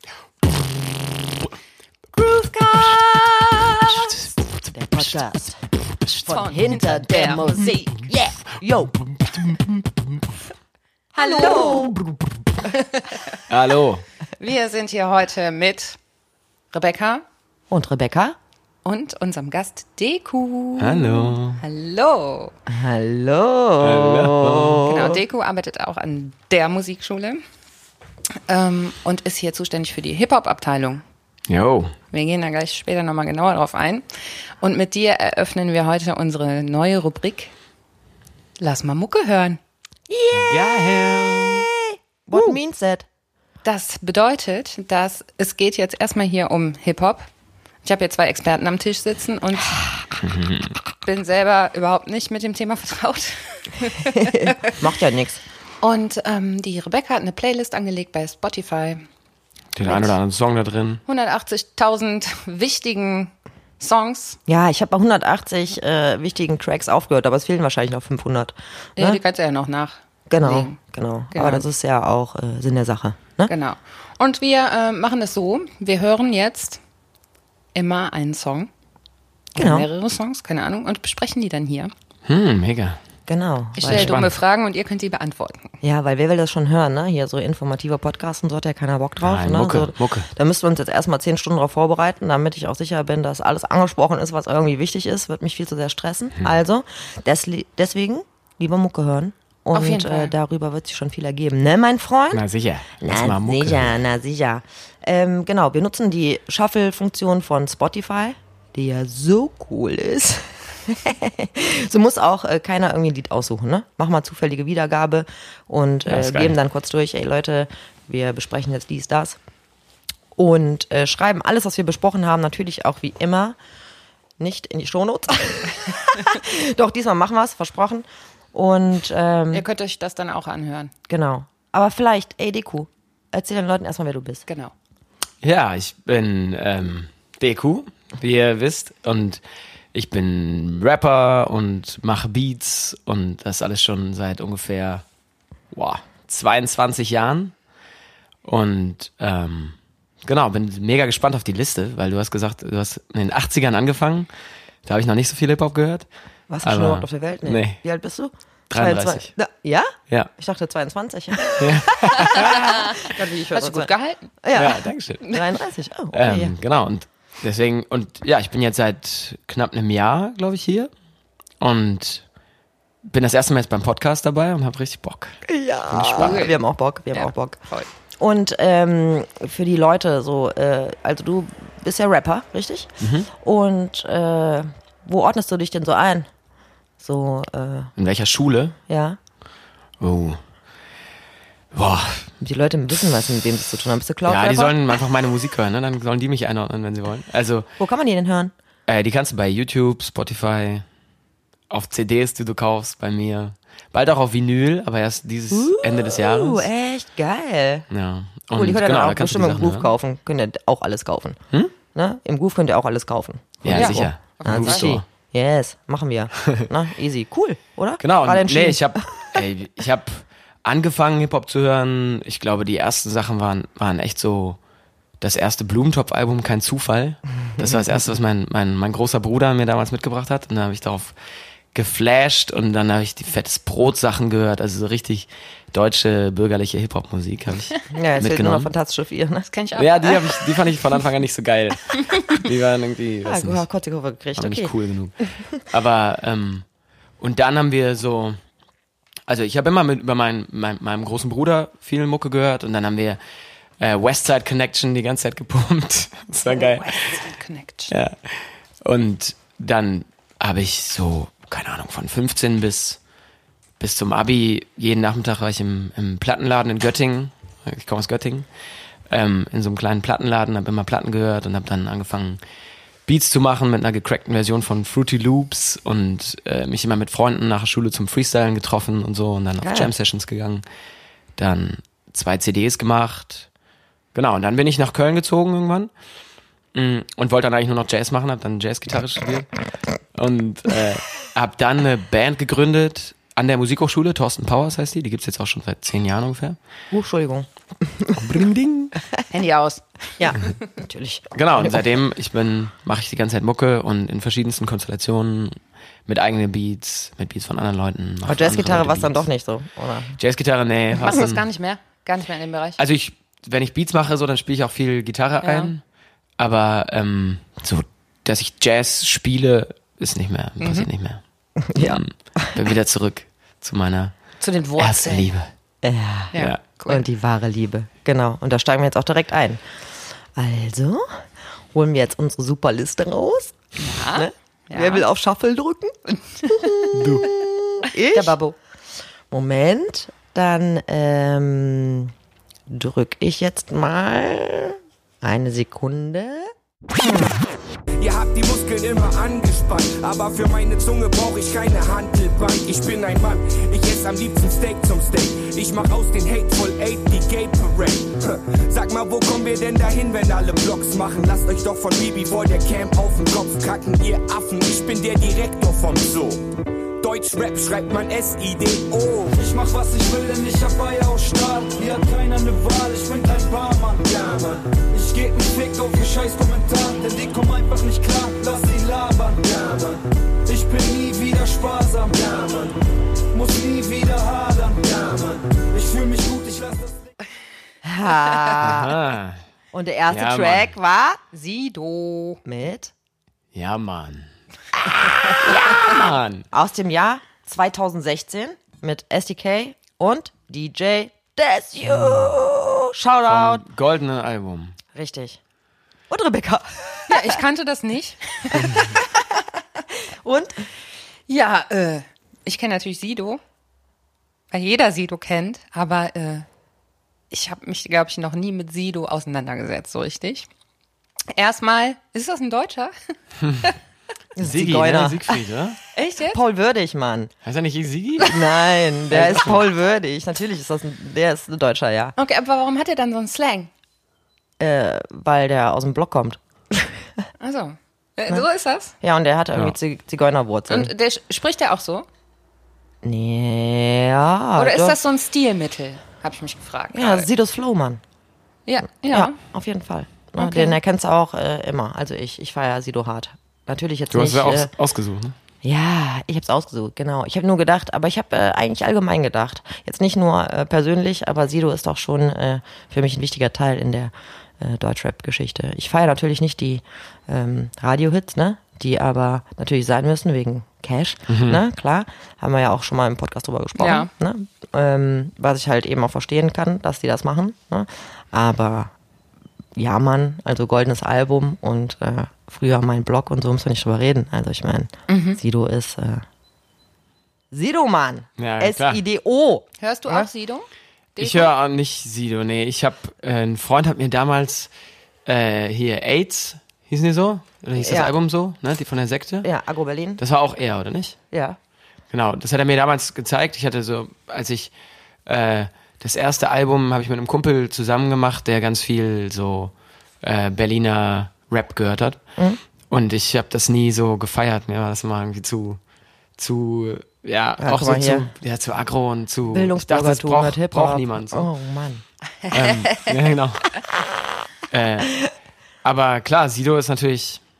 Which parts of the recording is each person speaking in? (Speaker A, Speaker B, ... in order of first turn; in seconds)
Speaker A: 2.2-4.1, 4.7-5.6, 6.2-9.0, 11.1-12.0, 17.7-18.4, 22.7-25.2, 40.1-43.0, 54.2-55.4, 59.9-60.1, 64.5-69.2, 70.3-73.5, 79.5-79.9, 83.3-84.2, 85.8-102.4, 103.0-119.4, 120.4-123.6, 124.4-129.7, 131.1-134.4, 156.5-163.9, 164.4-166.6, 175.5-177.6, 178.2-186.3, 187.0-187.9, 188.9-189.2, 192.4-194.7, 197.8-198.5, 205.5-207.8, 208.5-211.4, 211.9-219.4, 237.9-239.5, 243.2-244.7, 279.6-279.9, 296.9-298.3, 300.2-301.8, 308.2-310.2, 321.7-322.6, 325.8-329.6, 330.4-331.1, 331.7-338.4, 339.3-342.1, 342.7-346.5, 387.8-388.9, 389.7-391.2, 392.4-392.9, 394.9-395.8, 396.5-403.6, 404.9-405.4, 406.1-407.4, 409.9-410.6, 424.4-425.4, 426.3-427.3, 428.2-432.1, 434.6-437.2, 439.0-440.9, 443.0-445.0, 446.9-448.0, 449.0-454.7, 455.6-478.9, 479.8-486.2, 487.5-490.3, 497.8-498.1, 499.4-500.2, 501.3-501.6, 517.6-518.3, 519.5-522.0
Speaker B: 3.9-4.2, 9.1-9.6, 13.5-14.0, 20.8-21.6, 23.8-24.9, 31.5-31.9, 40.4-41.7, 50.2-50.7, 59.7-61.0, 82.3-83.0, 83.8-84.3, 89.2-90.3, 102.3-103.9, 116.1-116.6, 135.4-139.4, 139.9-145.0, 145.7-147.5, 148.4-154.3, 154.8-156.1, 156.6-157.8, 158.7-159.3, 161.6-162.8, 164.6-165.2, 166.1-170.9, 171.6-172.2, 173.0-176.4, 183.0-183.3, 188.0-188.8, 190.0-190.4, 191.7-192.3, 194.3-197.7, 198.9-200.8, 201.7-206.7, 207.9-209.9, 213.6-215.0, 218.0-224.6, 225.2-231.1, 231.7-238.7, 239.8-243.6, 244.4-246.6, 247.2-248.4, 249.3-253.2, 253.8-257.2, 257.9-263.0, 263.8-268.5, 269.1-272.4, 273.1-280.6, 281.4-283.5, 284.1-285.9, 286.7-289.5, 290.1-296.6, 298.1-298.9, 301.3-309.2, 310.2-311.4, 312.8-315.8, 316.4-321.2, 321.7-324.1, 324.8-325.5, 336.9-337.2, 388.6-389.4, 390.1-390.7, 393.5-394.3, 395.4-396.4, 403.3-404.7, 424.4-425.8, 427.4-428.4, 429.1-429.7, 454.1-455.3, 471.3-471.6, 488.4-489.0, 491.2-494.7, 495.2-499.4, 500.2-501.2, 502.1-504.7, 505.2-512.2, 512.9-515.8, 516.4-521.5, 522.5-523.7, 524.7-525.2, 525.8-527.4
Speaker C: 6.2-7.7, 11.2-11.9, 12.7-13.4, 14.4-16.0, 16.7-17.2, 18.8-22.5, 24.8-27.4, 28.5-31.0, 32.1-34.0, 34.6-37.5, 38.6-39.6, 43.6-47.3, 47.8-49.8, 51.0-54.7, 55.8-59.0, 61.0-64.4, 69.0-70.8, 71.3-71.7, 73.5-76.8, 77.7-78.7, 79.6-81.9, 83.8-85.7, 99.7-100.3, 129.5-130.9, 134.5-134.7, 162.3-164.3, 176.2-176.6, 177.1-177.9, 213.7-214.9, 239.5-240.4, 256.5-257.9, 299.3-299.9, 311.0-312.8, 315.4-315.7, 320.6-320.9, 324.4-325.3, 326.3-327.0, 333.8-335.0, 338.1-338.6, 391.3-392.4, 407.1-409.0, 411.3-413.4, 414.5-416.4, 417.3-420.5, 421.3-422.9, 425.9-426.4, 432.2-433.7, 437.4-438.9, 440.7-442.1, 444.6-447.3, 448.7-449.4, 450.4-450.8, 473.8-474.1, 485.1-485.4, 489.8-491.5
Speaker D: 348.0-366.4, 367.0-369.4
Speaker E: 369.3-382.8, 383.3-387.1